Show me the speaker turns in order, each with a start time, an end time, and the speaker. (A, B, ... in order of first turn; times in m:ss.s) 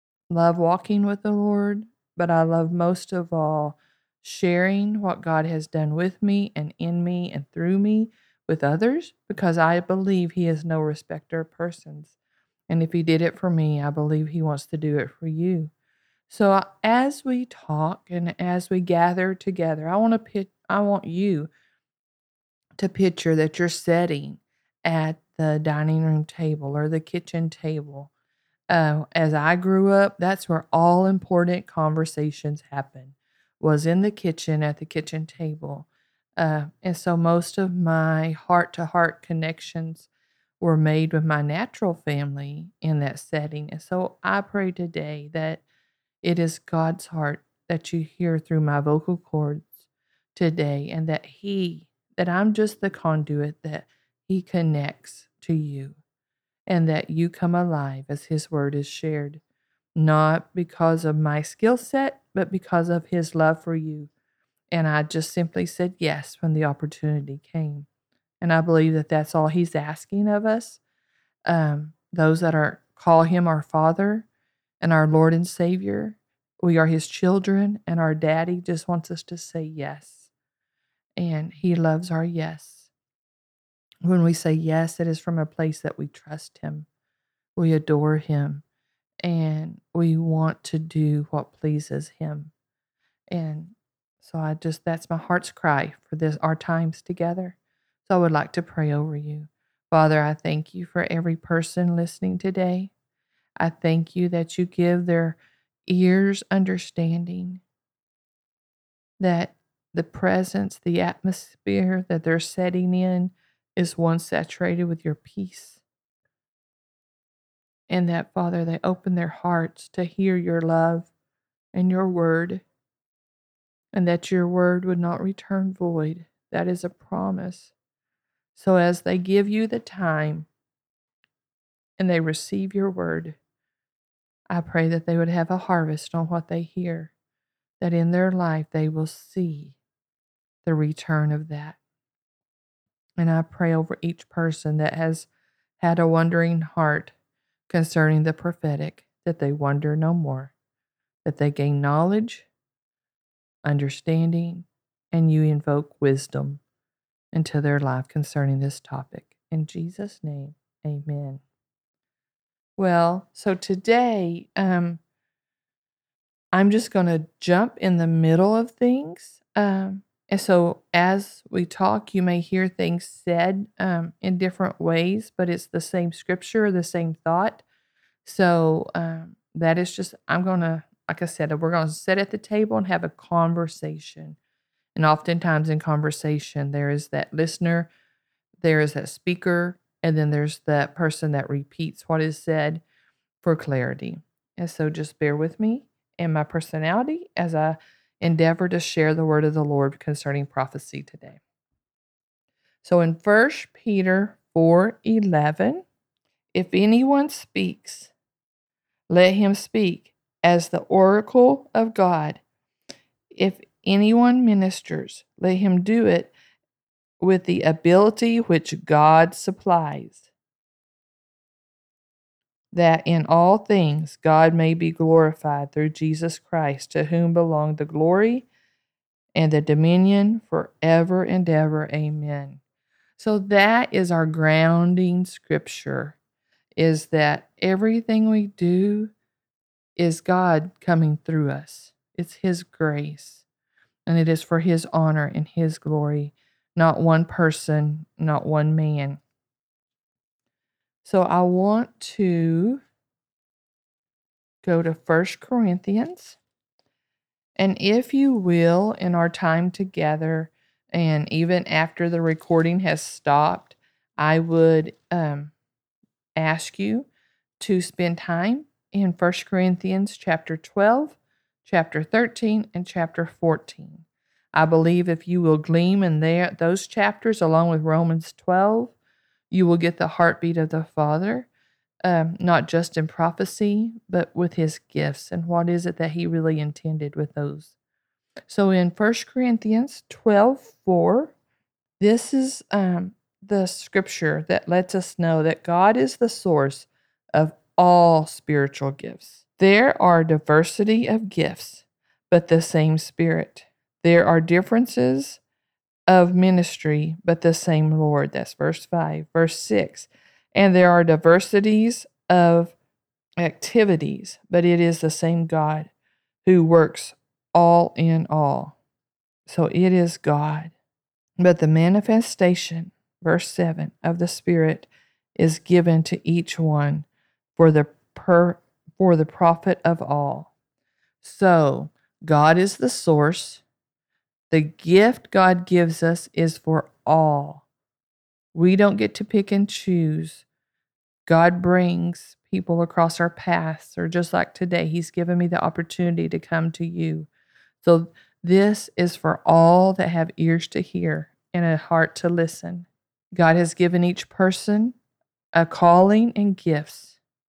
0:00.3-0:12.1 A
0:12.7-0:15.7 A
0:16.3-0:21.5 A
0:22.8-0:28.1 A
0:28.7-0:40.1 A
0:40.6-0:45.6 A
0:46.2-0:56.0 A
0:56.7-0:59.4 A
1:00.0-1:04.1 A
1:04.7-1:07.9 A
1:08.4-1:10.8 A
1:11.5-1:14.3 A
1:14.8-1:20.3 A
1:21.2-1:22.9 A
1:24.0-1:26.9 A
1:27.6-1:28.6 A
1:29.2-1:32.5 A
1:33.3-1:42.9 A
1:43.6-1:47.6 A
1:49.2-1:55.8 A
1:57.9-2:01.1 A
2:01.7-2:02.6 A
2:03.9-2:07.7 A
2:08.6-2:10.5 A
2:12.0-2:13.4 A
2:14.5-2:17.1 A
2:17.8-2:19.8 A
2:20.6-2:21.8 A
2:23.2-2:25.3 A
2:25.8-2:27.1 A
2:27.7-2:30.5 A
2:31.2-2:32.5 A
2:33.6-2:36.6 A
2:37.3-2:41.4 A
2:42.8-2:45.0 A
2:46.5-2:57.6 A
2:58.2-3:04.4 A
3:05.0-3:07.9 A
3:08.6-3:12.8 A
3:13.4-3:21.4 A
3:22.8-3:25.8 A
3:26.5-3:28.1 A
3:29.1-3:32.4 A
3:33.3-3:36.3 A
3:37.2-3:40.3 A
3:42.7-3:48.5 A
3:49.4-3:52.6 A
3:53.2-3:56.2 A
3:56.8-3:59.1 A
4:00.0-4:03.4 A
4:04.1-4:09.2 A
4:11.0-4:12.8 A
4:14.6-4:16.4 A
4:17.6-4:25.5 A
4:26.4-4:27.1 A
4:27.6-4:38.9 A
4:39.5-4:41.5 A
4:42.0-4:47.7 A
4:48.5-4:51.3 A
4:52.0-5:05.4 A
5:06.1-5:12.8 A
5:13.4-5:15.9 A
5:16.4-5:18.8 A
5:19.5-5:20.8 A
5:21.4-5:30.5 A
5:31.2-5:33.6 A
5:34.5-5:37.6 A
5:38.5-5:40.4 A
5:41.3-5:47.3 A
5:47.8-5:55.0 A
5:55.6-5:57.2 A